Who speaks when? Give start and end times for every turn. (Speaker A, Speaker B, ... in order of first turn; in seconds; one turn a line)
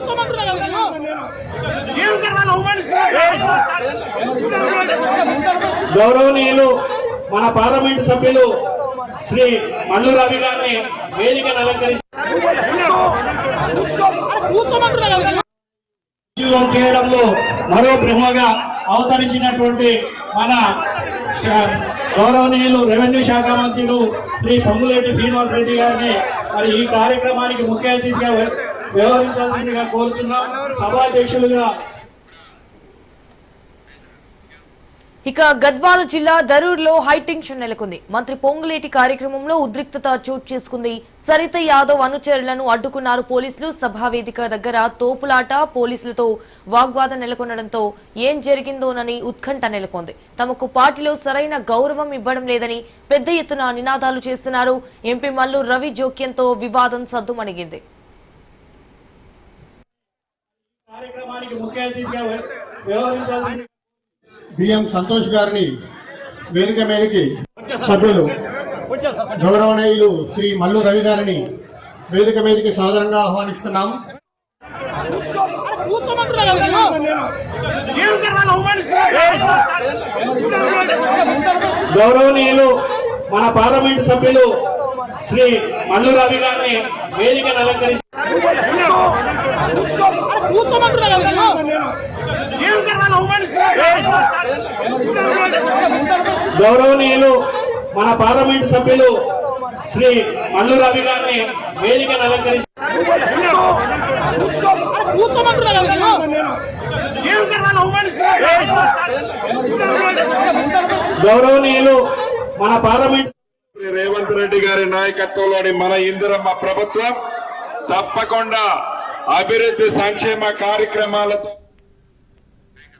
Speaker A: 2.1-3.1
Speaker A: 5.9-6.7
Speaker A: 7.3-8.5
Speaker A: 9.3-12.0
Speaker A: 16.4-20.6
Speaker A: 21.4-31.7
Speaker B: 35.3-57.8
Speaker A: 60.9-63.7
Speaker C: 64.6-65.7
Speaker C: 66.5-67.3
Speaker C: 67.8-68.3
Speaker C: 69.4-71.5
Speaker C: 72.1-74.0
Speaker A: 76.6-76.9
Speaker A: 78.1-79.1
Speaker A: 81.9-82.7
Speaker A: 83.3-84.5
Speaker A: 85.2-88.0
Speaker A: 91.1-91.5
Speaker A: 92.7-93.9
Speaker A: 96.6-97.3
Speaker A: 97.9-99.1
Speaker A: 99.9-102.6
Speaker A: 105.8-106.2
Speaker A: 107.3-108.4
Speaker A: 111.2-112.0
Speaker A: 112.6-113.3
Speaker D: 113.8-117.1
Speaker D: 117.9-118.6
Speaker D: 119.3-121.5